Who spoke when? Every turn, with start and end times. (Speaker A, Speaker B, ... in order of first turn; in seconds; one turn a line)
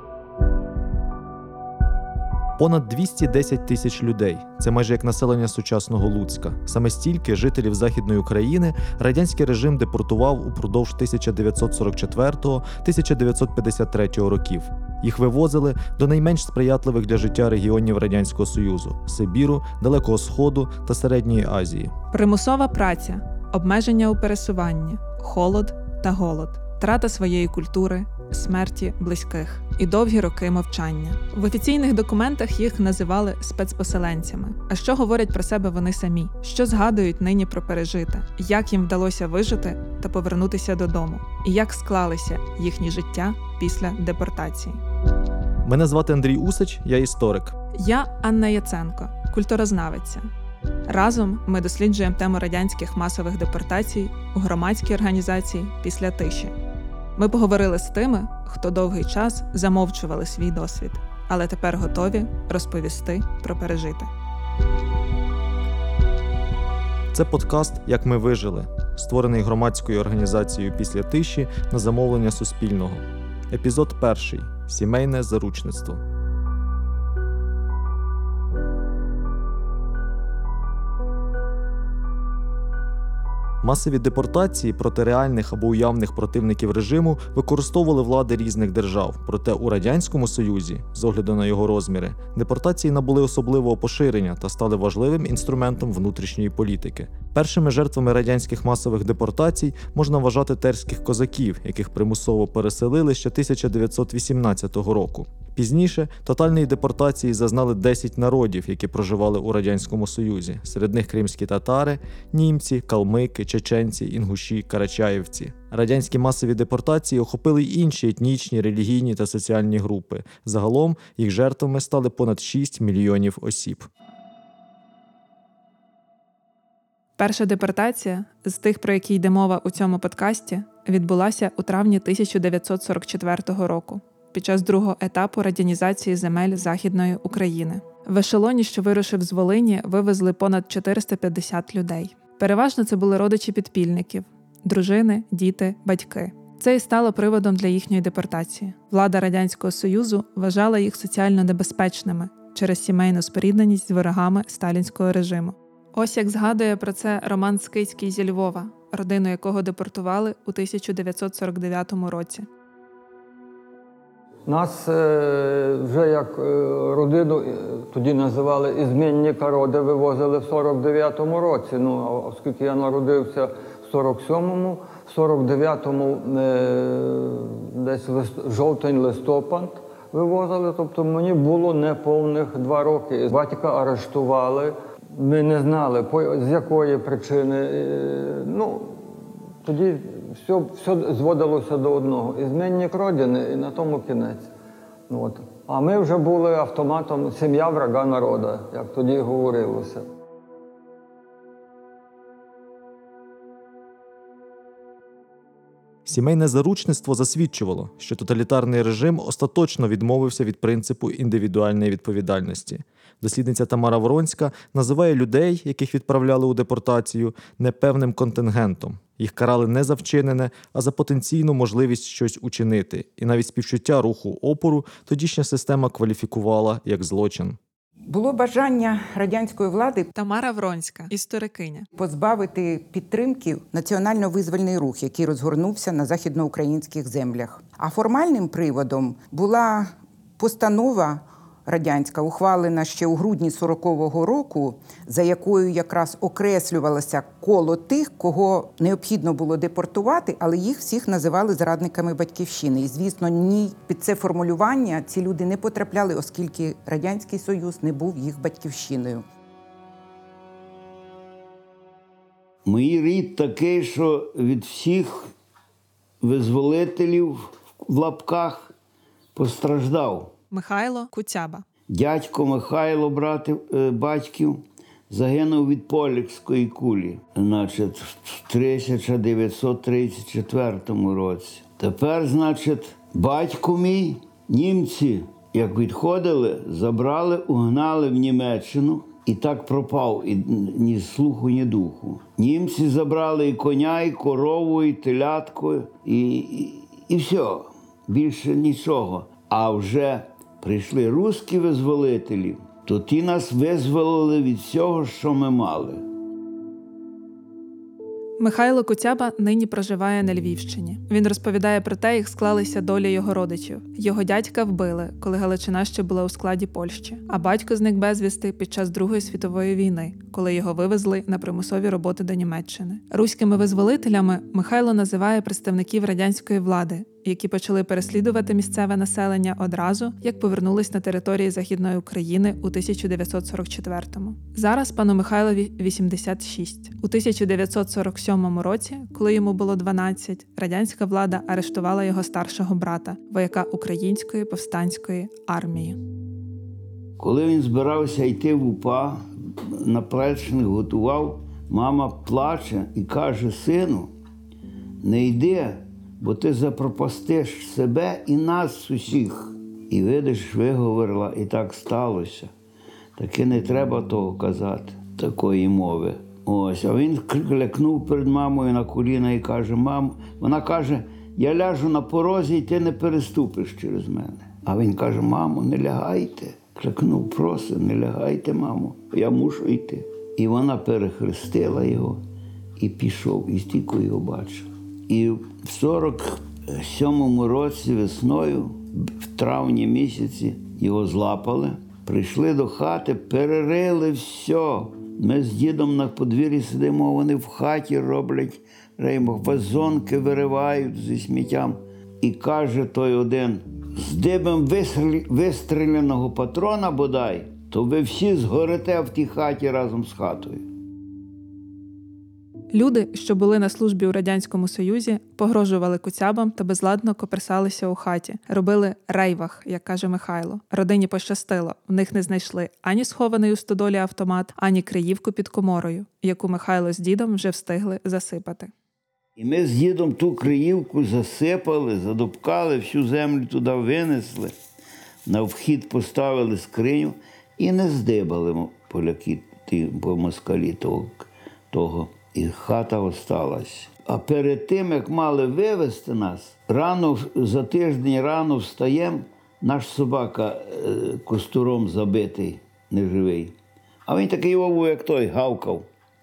Speaker A: 2.6-21.9
Speaker B: 22.1-44.8
Speaker A: 45.6-47.5
Speaker B: 47.8-50.3
Speaker B: 50.9-56.5
Speaker B: 57.1-64.1
Speaker A: 67.1-76.0
Speaker A: 83.6-123.9
Speaker B: 127.2-162.5
Speaker C: 164.4-194.5
Speaker C: 195.1-200.1
Speaker A: 206.1-227.6
Speaker D: 228.1-230.1
Speaker B: 230.1-231.9
Speaker D: 231.9-259.2
Speaker E: 262.6-265.3
Speaker E: 266.2-268.7
Speaker E: 269.4-270.3
Speaker B: 270.5-271.6
Speaker E: 271.9-306.0
Speaker B: 308.4-346.0
Speaker E: 347.2-354.1
Speaker E: 355.0-362.5
Speaker E: 363.2-382.2
Speaker E: 382.8-410.6
Speaker B: 412.7-428.7
Speaker E: 429.4-434.5
Speaker E: 435.2-453.5
Speaker E: 454.1-455.9